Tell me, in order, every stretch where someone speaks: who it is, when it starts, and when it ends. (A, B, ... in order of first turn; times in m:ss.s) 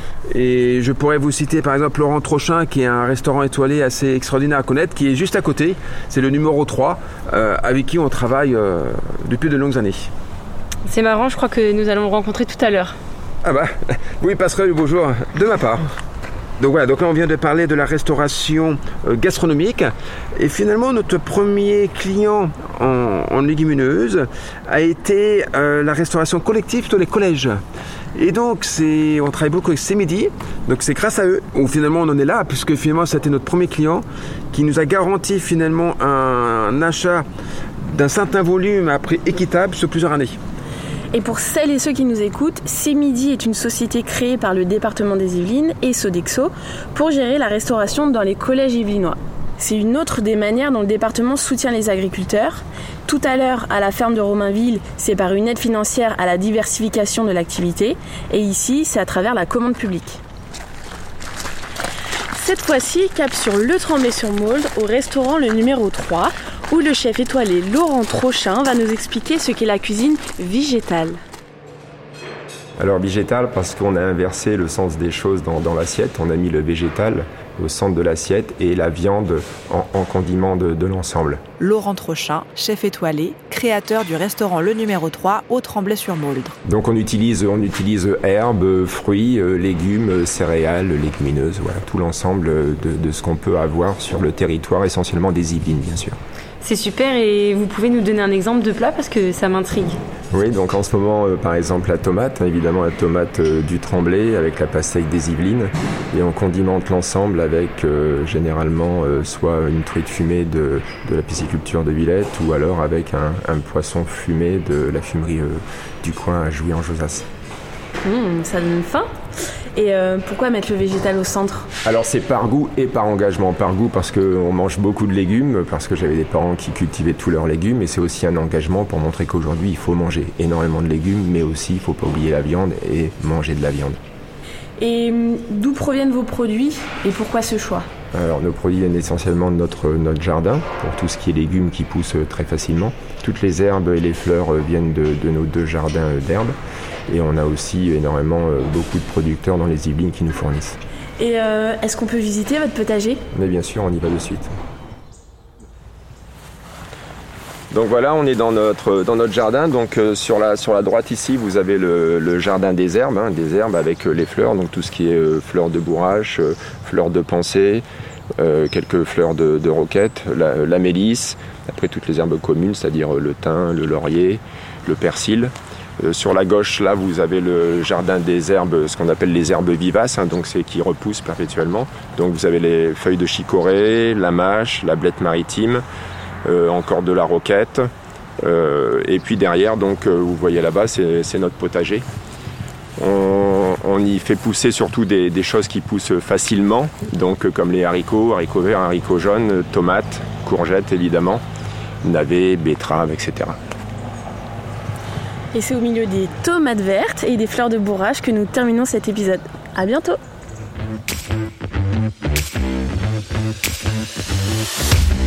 0:00.3-0:10.1 A
0:10.9-0:13.0 B
0:13.4-0:15.8 A
0:16.6-0:27.6 A
0:28.2-0:37.2 A
0:37.9-0:40.4 A
0:41.1-1:00.2 C
1:02.3-1:11.2 C
1:12.8-1:21.5 D
1:21.6-1:26.6 E
1:26.6-1:36.2 D
1:36.6-1:40.0 B
1:40.3-1:57.3 D
1:58.0-1:59.1 C
1:59.8-2:01.7 C
2:01.8-2:14.0 D
2:14.8-2:17.9 C
2:18.1-2:26.6 D
2:27.1-2:30.8 D
2:31.2-2:33.2 C
2:33.3-2:34.5 D
2:37.7-2:47.8 D
2:48.4-3:05.8 D
3:06.4-3:07.9 D
3:08.4-3:12.1 D
3:13.0-3:21.4 D
3:22.0-3:23.6 D
3:25.5-3:30.2 C